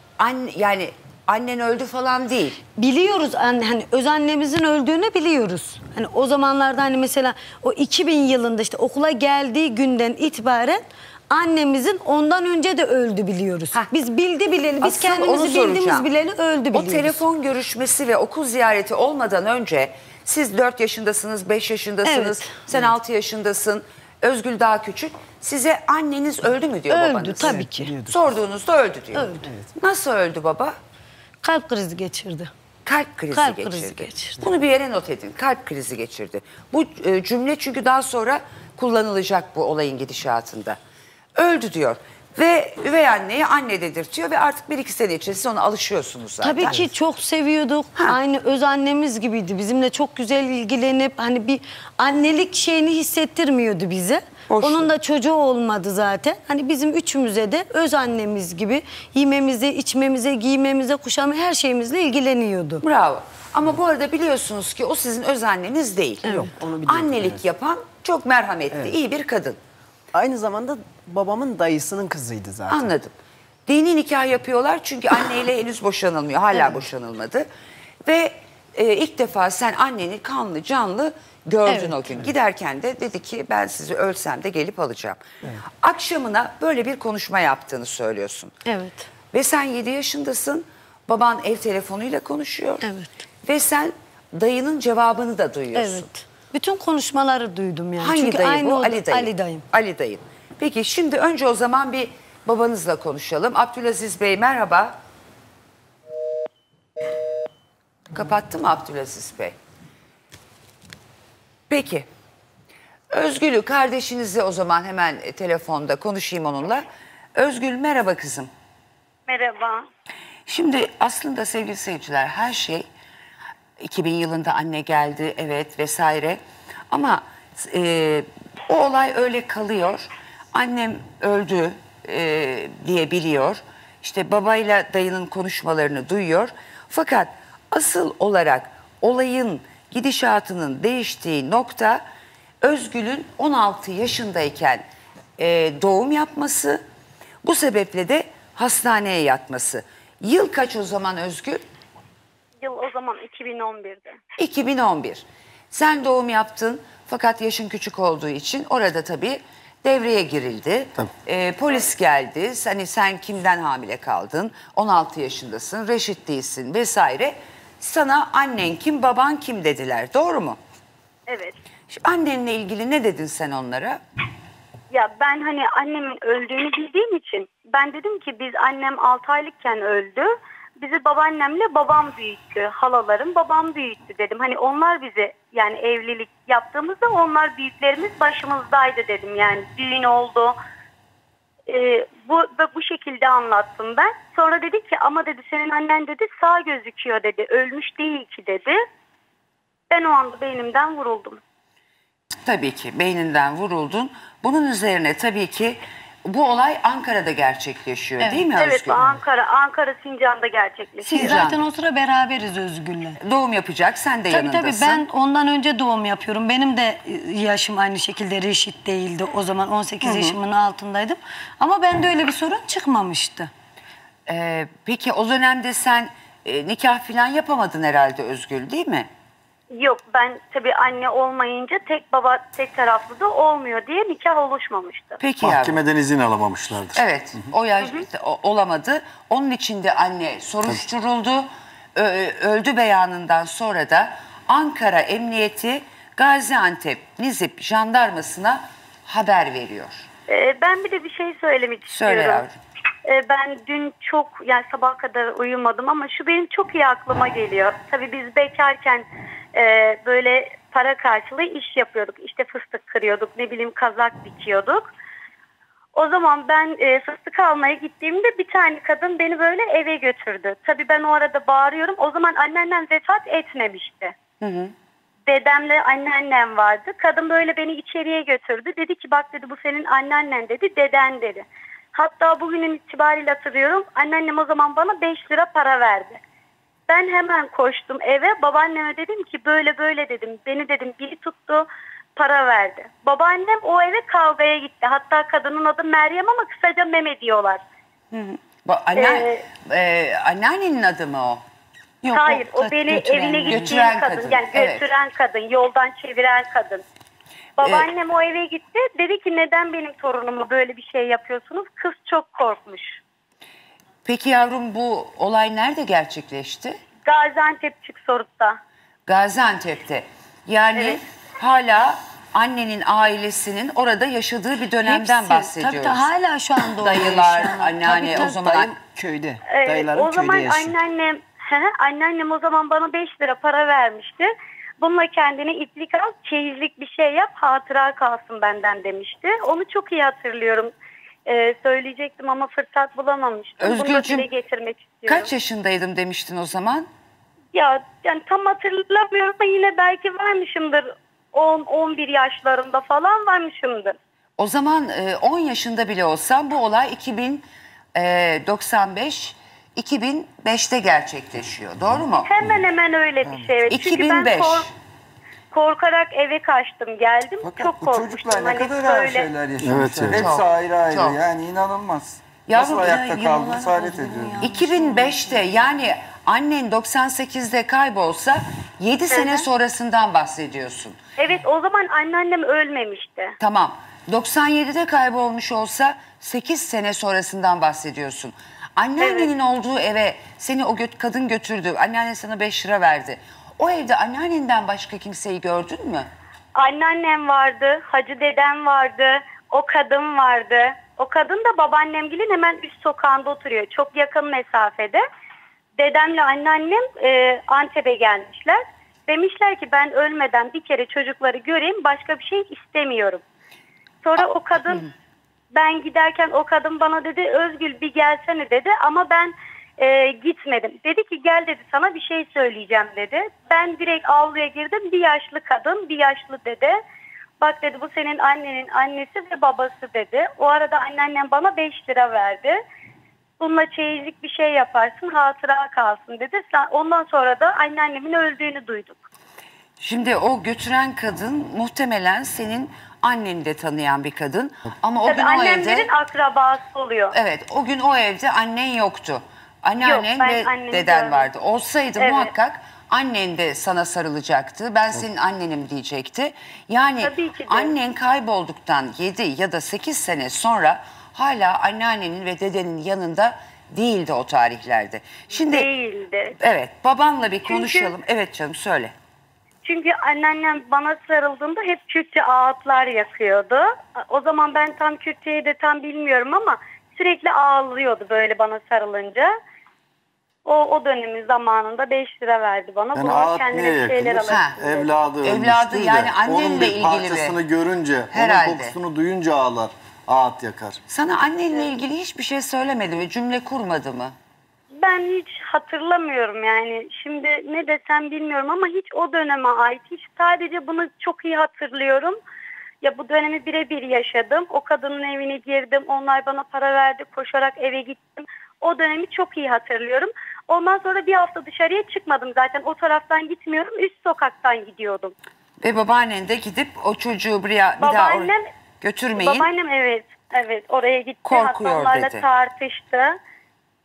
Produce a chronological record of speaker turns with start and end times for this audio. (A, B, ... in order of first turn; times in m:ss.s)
0:00.2-0:02.6 A
0:02.7-0:17.2 B
0:14.8-0:16.1 A
0:16.7-0:30.8 A
0:22.0-0:22.7 B
0:26.9-0:27.9 B
0:27.2-0:28.2 C
0:29.1-0:29.4 B
0:31.4-0:32.5 B
0:32.8-0:40.8 A
0:33.3-0:34.4 B
0:41.4-0:46.8 A
0:46.4-1:02.8 B
0:54.5-0:54.9 A
1:02.8-1:09.6 A
1:06.2-1:07.4 C
1:10.1-1:12.9 C
1:12.7-1:13.1 A
1:13.7-1:17.5 A
1:18.0-1:25.2 A
1:21.6-1:22.0 B
1:25.8-1:28.5 A
1:28.6-1:29.1 B
1:29.3-1:32.8 A
1:32.8-1:33.1 B
1:33.4-1:36.1 A
1:35.7-1:39.6 B
1:38.0-1:45.0 A
1:48.1-1:49.6 A
1:51.7-1:52.1 A
1:53.1-1:56.8 A
1:57.4-1:58.5 A
1:59.3-1:59.8 D
2:00.5-2:02.9 A
2:03.8-2:22.0 A
2:22.6-2:24.8 A
2:25.4-2:26.8 A
2:27.4-2:31.6 A
2:32.6-2:34.2 D
2:34.4-2:50.6 A
2:51.3-2:51.6 D
2:51.9-2:54.0 A
2:54.9-3:10.5 D
3:11.7-3:18.8 D
3:19.9-3:21.4 D
3:22.4-3:29.2 A
3:28.2-3:28.5 B
3:28.6-3:31.3 D
3:31.0-3:33.2 B
3:31.1-3:31.6 A
3:33.2-3:35.0 A
3:34.3-3:43.5 B
3:40.0-3:40.4 A
3:44.3-3:49.1 A
3:49.7-3:55.2 D
3:55.2-3:55.8 A
3:55.4-3:57.0 E
3:57.0-4:10.1 A
4:10.3-4:12.4 D
4:11.9-4:12.5 A
4:13.0-4:24.9 D
4:25.9-4:34.1 D
4:34.4-4:34.7 A
4:35.3-4:46.2 D
4:46.9-4:57.6 D
4:58.1-5:01.4 A
4:59.0-4:59.4 D
5:02.0-5:04.0 B
5:02.1-5:06.8 D
5:02.9-5:04.9 A
5:07.6-5:13.0 D
5:07.6-5:07.9 A
5:14.0-5:16.8 A
5:17.0-5:18.6 D
5:19.1-5:26.1 A
5:24.8-5:28.5 B
5:26.8-5:28.8 A
5:28.1-5:30.8 C
5:29.5-5:40.7 D
5:41.3-5:45.3 D
5:43.6-5:44.3 A
5:45.1-5:46.9 A
5:47.5-5:54.0 D
5:54.4-6:02.4 A
6:02.2-6:04.7 D
6:03.7-6:04.7 A
6:05.5-6:09.3 D
6:07.4-6:14.4 F
6:09.6-6:10.3 E
6:10.1-6:11.2 A
6:12.5-6:13.6 A
6:12.6-6:15.4 B
6:14.4-6:21.0 A
6:19.1-6:19.4 D
6:21.2-6:23.3 D
6:23.4-6:36.1 A
6:29.0-6:29.3 D
6:36.6-6:45.0 D
6:45.8-6:53.2 D
6:54.0-6:54.8 D
6:55.5-7:06.8 D
7:07.4-7:12.6 D
7:13.4-7:19.0 D
7:19.8-7:25.9 A
7:25.0-7:27.1 D
7:27.1-7:45.7 A
7:29.8-7:31.3 D
7:32.0-7:32.3 D
7:37.0-7:37.7 D
7:45.5-7:46.3 D
7:46.4-7:48.9 A
7:47.4-7:47.9 D
7:49.6-7:59.3 D
8:00.4-8:04.9 D
8:02.9-8:10.8 E
8:04.3-8:04.6 A
8:05.2-8:07.4 A
8:08.1-8:08.7 A
8:10.9-8:14.1 A
8:14.7-8:22.2 D
8:22.8-8:35.1 D
8:35.6-8:39.5 A
8:37.8-8:38.4 D
8:39.2-8:43.1 D
8:41.2-8:42.2 A